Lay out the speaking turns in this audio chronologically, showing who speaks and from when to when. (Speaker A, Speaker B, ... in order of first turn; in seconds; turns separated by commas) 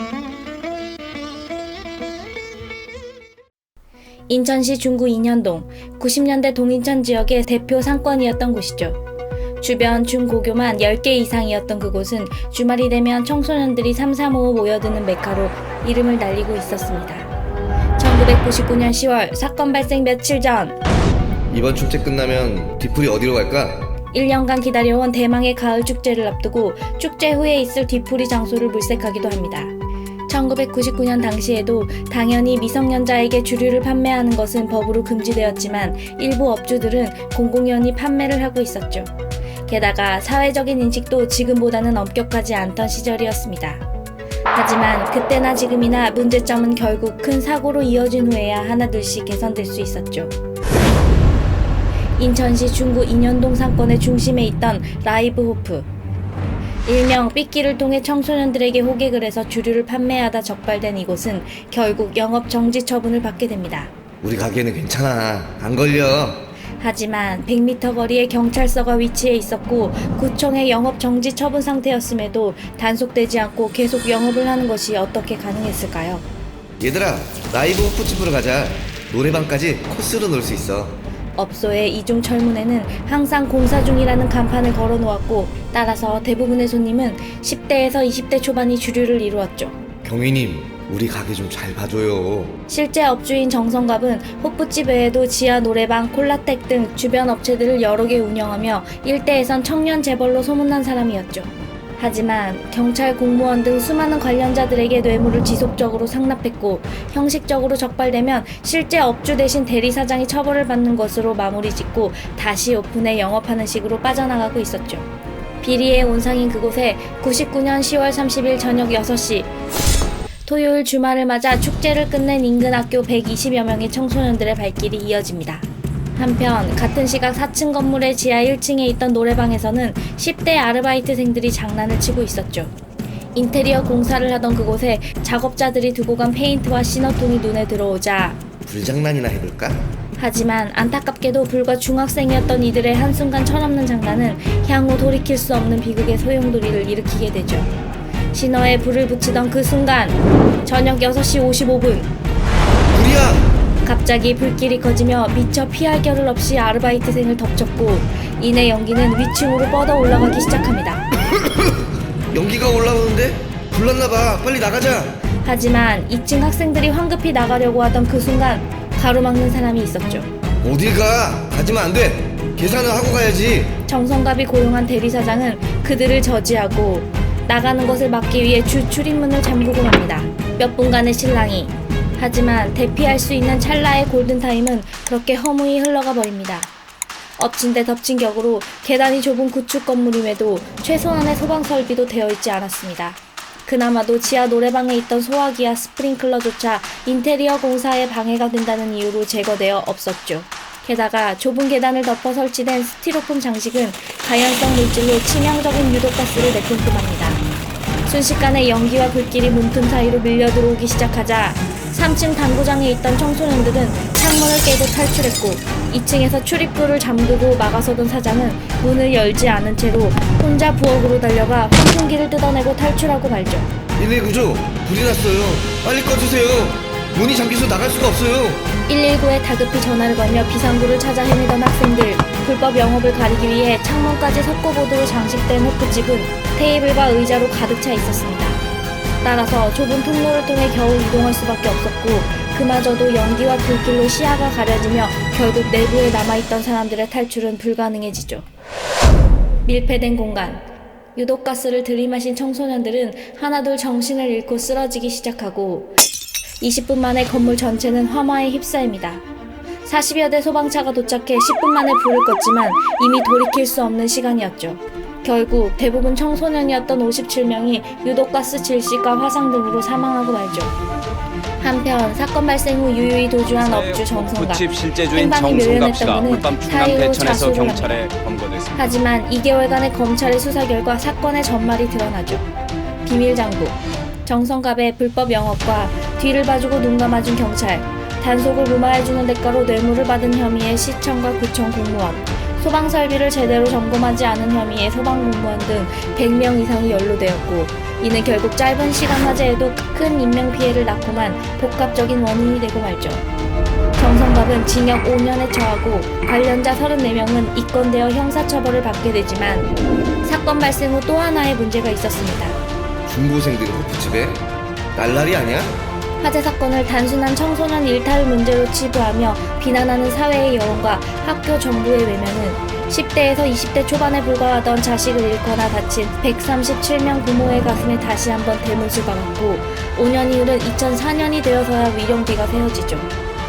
Speaker A: 4.3-9.0, Speaker A: 9.6-17.3, Speaker A: 18.0-20.8, Speaker B: 21.5-23.9, Speaker A: 24.1-29.7, Speaker A: 30.3-39.1, Speaker A: 39.7-43.8, Speaker A: 44.5-50.3, Speaker A: 52.2-55.9, Speaker A: 56.9-63.9, Speaker B: 64.2-66.4, Speaker A: 66.8-76.2, Speaker B: 76.8-81.0, Speaker A: 81.4-89.8, Speaker B: 90.0-92.6, Speaker A: 92.7-115.1, Speaker A: 115.6-119.5, Speaker A: 120.5-132.7, Speaker A: 133.3-138.4, Speaker B: 138.7-139.8, Speaker A: 140.2-147.7, Speaker A: 148.3-152.1, Speaker B: 152.9-153.4, Speaker A: 153.8-161.0, Speaker B: 161.3-161.8, Speaker B: 162.3-165.2, Speaker A: 165.4-170.3, Speaker B: 170.6-173.8, Speaker A: 173.9-186.7, Speaker A: 187.4-207.4, Speaker A: 208.1-223.7, Speaker B: 224.0-228.7, Speaker A: 228.9-238.6, Speaker A: 239.2-248.4, Speaker A: 249.7-255.9, Speaker A: 256.6-259.2, Speaker A: 259.8-270.7, Speaker A: 271.6-278.0, Speaker C: 273.5-278.8, Speaker A: 278.8-282.4, Speaker A: 283.0-303.2, Speaker A: 303.9-309.7, Speaker A: 310.2-312.6, Speaker B: 313.1-315.8, Speaker A: 316.2-333.1